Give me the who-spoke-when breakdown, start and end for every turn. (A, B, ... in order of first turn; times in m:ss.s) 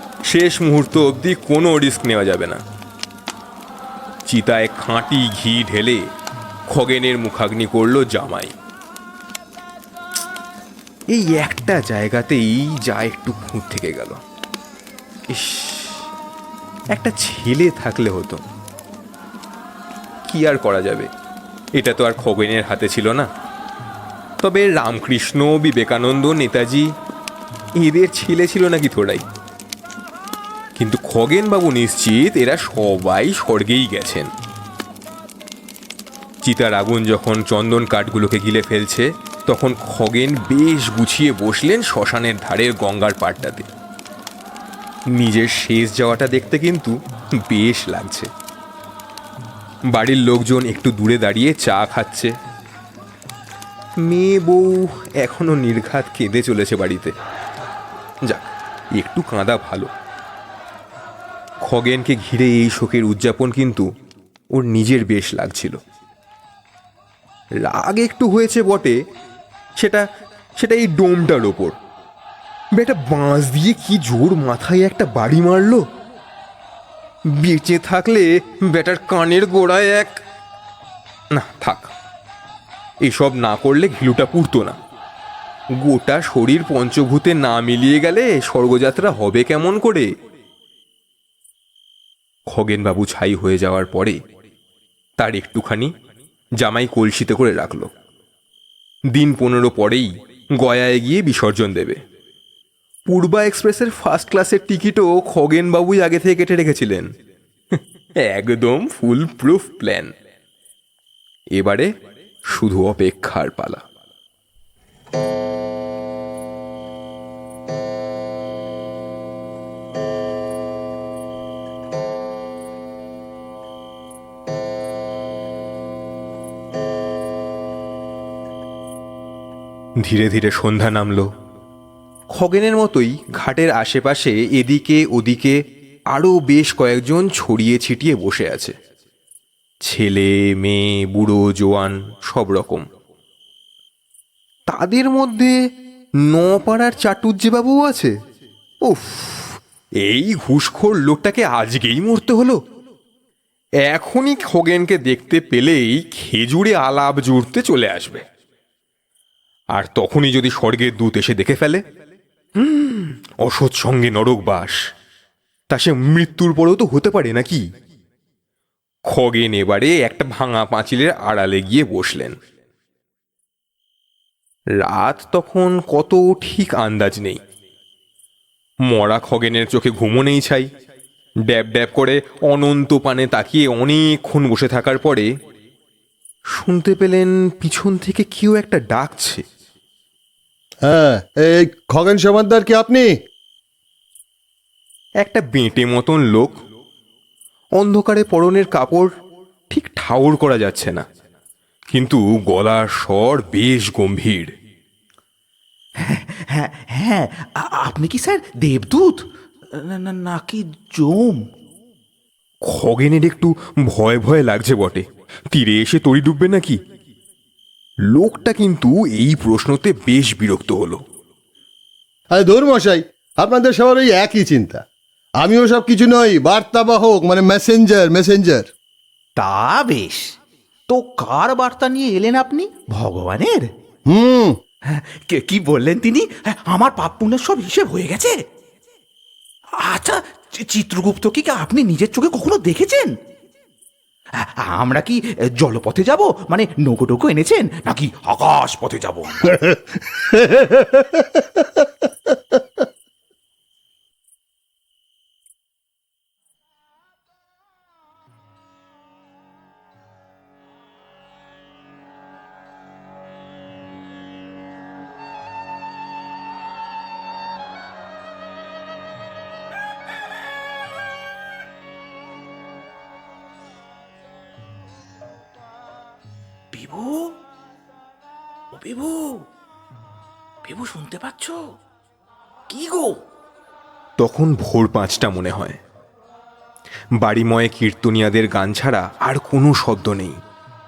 0:00.3-0:02.6 A
0:04.3-0:06.0 A
0:06.7-0:08.5 A
0:11.1-0:14.2 A
0:15.3-0:16.1 A
0:16.9-0:18.4 A
0:20.3-0:21.1 A
0:21.8-0:23.3 A
0:24.4-0:26.9 A
0:27.8-0:29.2 A
0:30.8-0:34.3 A
0:36.4-0:43.7 A
0:45.1-0:46.9 A
0:47.4-0:48.3 A
0:49.9-0:52.3 A
0:54.0-0:57.1 A
0:58.3-0:59.9 A
1:01.6-1:03.8 A
1:04.6-1:05.8 A
1:07.6-1:09.0 A
1:09.8-1:10.0 A
1:10.6-1:11.7 A
1:12.8-1:15.8 A
1:17.4-1:20.1 A
1:21.3-1:21.9 A
1:23.0-1:24.8 A
1:25.8-1:30.1 A
1:32.5-1:34.2 A
1:35.2-1:35.9 A
1:36.6-1:37.9 A
1:39.1-1:42.0 A
1:43.1-1:47.1 A
1:48.2-1:50.1 A
1:51.6-1:51.9 A
1:52.5-1:53.8 A
2:10.0-2:11.3 A
2:12.3-2:15.6 A
2:16.1-2:18.7 A
2:19.8-2:22.8 A
2:24.7-2:25.5 A
2:26.3-2:28.1 A
2:28.8-2:32.6 A
2:33.8-2:38.2 A
2:39.7-2:41.8 A
2:42.6-2:44.8 A
2:45.7-2:47.6 A
2:49.1-2:52.3 A
2:54.8-2:57.4 A
2:58.9-3:00.7 A
3:01.5-3:05.3 A
3:06.5-3:09.4 A
3:10.8-3:13.2 B
3:15.2-3:16.5 A
3:17.8-3:19.1 A
3:19.7-3:21.0 A
3:21.9-3:24.5 A
3:26.1-3:29.2 C
3:29.9-3:31.4 C
3:32.7-3:36.8 A
3:38.1-3:41.0 A
3:42.3-3:44.8 B
3:45.4-3:48.7 B
3:49.4-3:50.2 C
3:50.9-3:53.6 C
3:54.1-3:54.6 B
3:54.9-3:58.3 C
3:59.8-4:03.1 C
4:04.7-4:09.5 C
4:10.4-4:10.8 B
4:36.7-4:37.3 C
4:38.7-4:39.4 C
4:40.6-4:41.6 C
4:42.7-4:43.1 C
4:44.2-4:45.8 A
4:47.2-4:50.4 A